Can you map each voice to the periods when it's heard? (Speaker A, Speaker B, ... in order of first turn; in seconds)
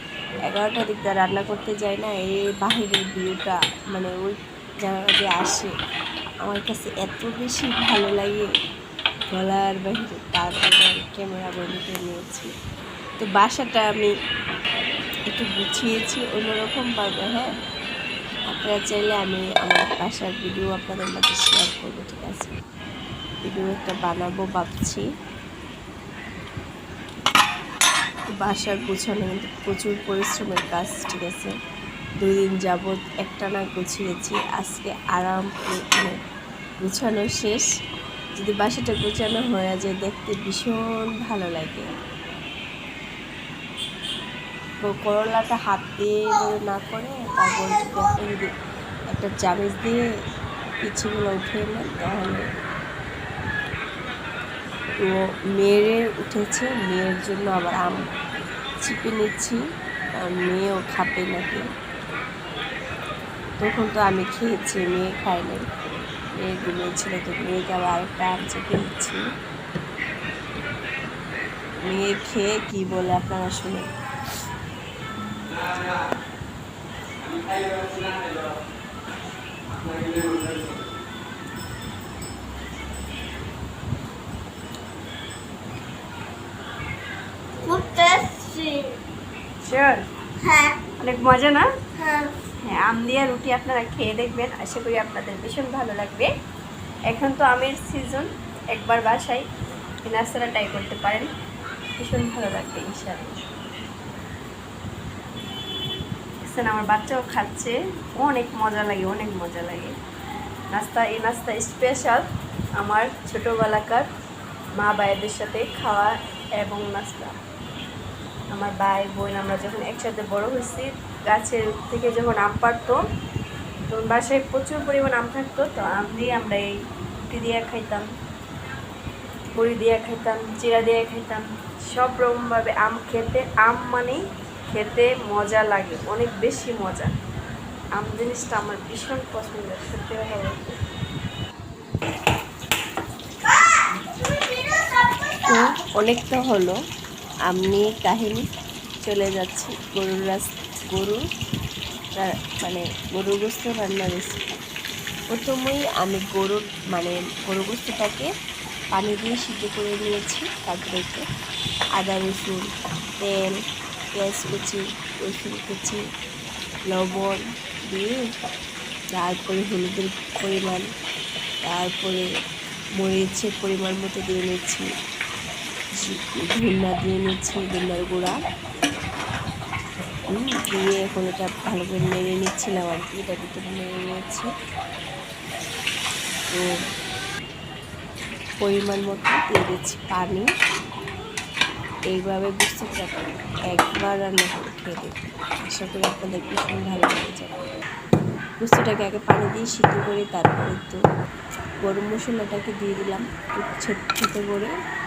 Speaker A: 0.5-5.7, 6.5-8.5, 9.3-12.5, 13.2-14.1, 15.3-17.5, 18.5-22.5, 23.4-25.0, 28.4-31.5, 32.2-36.2, 36.8-37.7, 38.4-41.9, 44.9-48.5, 49.1-50.0, 50.8-52.4, 55.0-58.0, 58.8-59.6, 60.2-61.6, 63.6-65.6, 66.4-69.2, 71.9-73.9, 145.5-146.8, 147.5-148.5, 149.1-151.2, 152.2-154.6, 155.3-158.3, 158.9-161.2, 162.0-162.7, 163.2-163.5, 164.2-166.0, 166.9-168.2, 169.2-170.8, 171.7-172.3, 173.0-174.9, 176.0-178.3, 180.3-184.5, 188.6-190.5, 192.1-197.7, 198.6-201.0, 201.8-204.7
Speaker B: 87.6-89.0, 90.4-90.8, 92.0-92.3
Speaker C: 89.7-90.0, 91.0-91.7, 92.7-96.3, 97.1-99.4, 100.1-101.3, 102.0-103.4, 106.5-109.9, 110.7-112.3, 112.8-114.1, 114.8-117.3, 118.5-123.0, 123.9-126.7, 127.3-128.1, 129.6-137.1, 138.0-140.8